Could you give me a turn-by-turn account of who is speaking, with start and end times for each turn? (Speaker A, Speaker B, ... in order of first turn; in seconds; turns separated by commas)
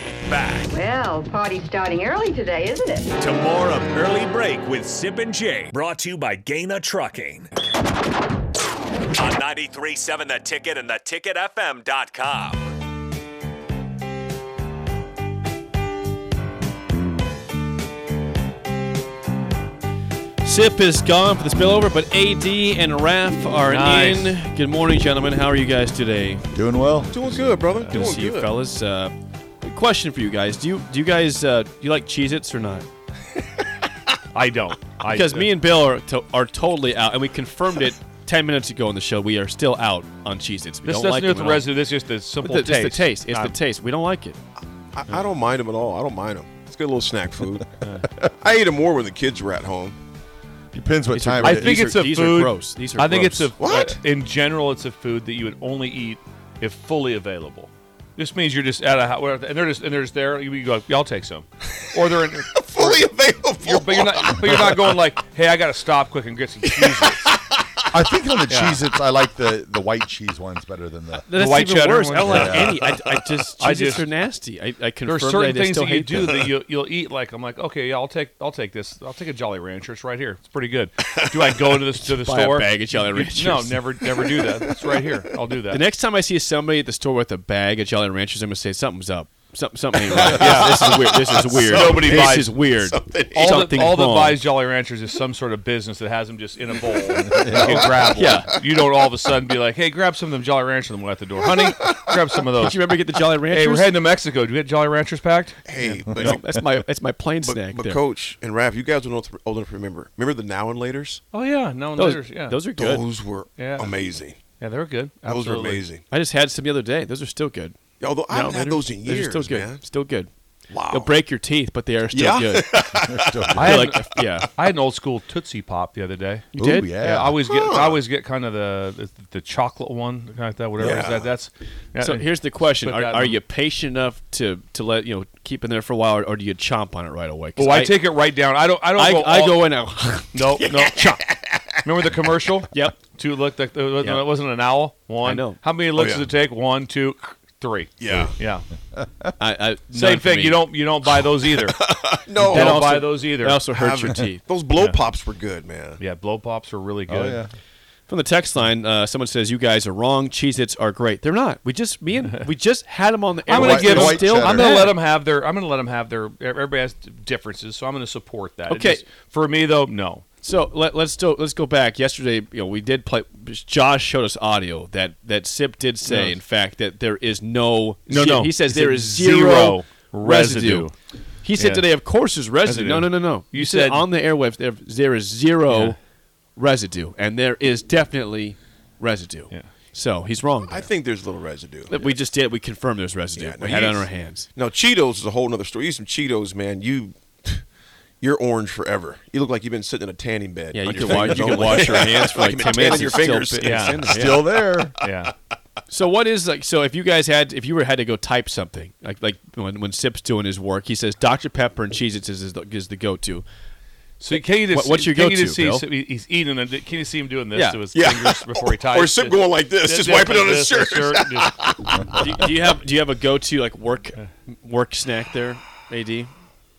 Speaker A: 0.2-0.7, Speaker B: 0.7-3.2, Speaker A: 3.2-7.5, Speaker A: 9.1-12.7, Speaker C: 20.4-26.5, Speaker D: 23.7-24.4, Speaker E: 26.5-27.7, Speaker F: 27.1-28.6, Speaker D: 27.8-28.1, Speaker C: 27.9-32.9, Speaker D: 34.3-35.5, Speaker C: 35.1-41.7, Speaker D: 40.8-43.5, Speaker C: 42.4-44.4, Speaker F: 44.9-47.6, Speaker D: 47.8-48.1, Speaker F: 48.3-50.0, Speaker E: 50.7-51.9, Speaker C: 51.1-53.5, Speaker D: 51.4-67.3, Speaker F: 53.6-54.0, Speaker F: 62.5-65.0, Speaker F: 66.6-67.3, Speaker E: 67.9-71.3, Speaker D: 68.5-68.8, Speaker C: 71.3-76.5, Speaker D: 71.3-72.8, Speaker E: 72.2-72.8, Speaker F: 72.8-73.3, Speaker D: 73.6-74.1, Speaker D: 75.0-85.8, Speaker F: 81.2-81.5, Speaker C: 82.0-83.8, Speaker F: 84.5-84.9, Speaker C: 85.7-94.4, Speaker F: 90.0-93.9, Speaker D: 90.2-91.0, Speaker D: 91.6-92.6, Speaker D: 93.3-102.8, Speaker F: 96.9-98.3, Speaker E: 97.3-98.1, Speaker C: 97.6-98.6, Speaker F: 101.4-102.2, Speaker C: 102.6-104.0, Speaker D: 103.5-105.6, Speaker F: 105.7-106.4, Speaker E: 106.0-106.4, Speaker C: 106.0-108.0, Speaker F: 107.4-111.2, Speaker D: 111.3-112.6, Speaker C: 112.0-113.1, Speaker F: 112.8-114.4, Speaker D: 113.6-113.9, Speaker D: 114.6-115.8, Speaker F: 115.3-116.0, Speaker C: 116.1-120.3, Speaker F: 118.0-119.8, Speaker F: 120.7-121.1, Speaker C: 120.9-122.8, Speaker F: 122.1-124.2, Speaker E: 123.0-123.8, Speaker D: 123.5-126.5, Speaker C: 123.6-124.5, Speaker C: 126.5-126.9, Speaker E: 126.5-127.4, Speaker D: 127.0-133.4, Speaker F: 127.4-128.0, Speaker F: 130.8-131.3, Speaker C: 132.0-138.0, Speaker D: 137.6-139.7, Speaker C: 138.9-140.7, Speaker D: 140.3-141.2, Speaker D: 141.8-148.6, Speaker C: 142.7-143.0, Speaker C: 144.0-144.3, Speaker C: 145.2-145.6, Speaker F: 146.0-146.3, Speaker F: 148.0-148.3, Speaker C: 149.4-150.7, Speaker D: 149.9-151.8, Speaker F: 151.6-152.9, Speaker C: 152.4-154.4, Speaker D: 152.4-153.6, Speaker F: 153.7-156.0, Speaker D: 156.0-157.4, Speaker E: 157.1-157.5, Speaker C: 158.1-165.0, Speaker D: 163.5-170.3, Speaker E: 163.5-164.9, Speaker C: 168.7-169.1, Speaker C: 170.4-180.9, Speaker D: 176.1-176.4, Speaker D: 178.1-180.9, Speaker C: 181.4-186.0, Speaker D: 181.6-181.9, Speaker D: 182.6-184.1, Speaker D: 185.7-186.0, Speaker C: 186.6-190.9, Speaker F: 190.7-192.1, Speaker C: 191.9-194.5, Speaker F: 193.3-197.6, Speaker F: 198.2-204.1, Speaker C: 200.7-204.6, Speaker D: 201.1-202.1, Speaker D: 203.6-204.2, Speaker E: 204.0-205.0, Speaker D: 205.0-205.3, Speaker C: 205.9-213.4, Speaker D: 214.2-221.5, Speaker C: 214.7-215.9, Speaker C: 217.5-217.8, Speaker F: 217.9-222.7, Speaker C: 222.1-226.3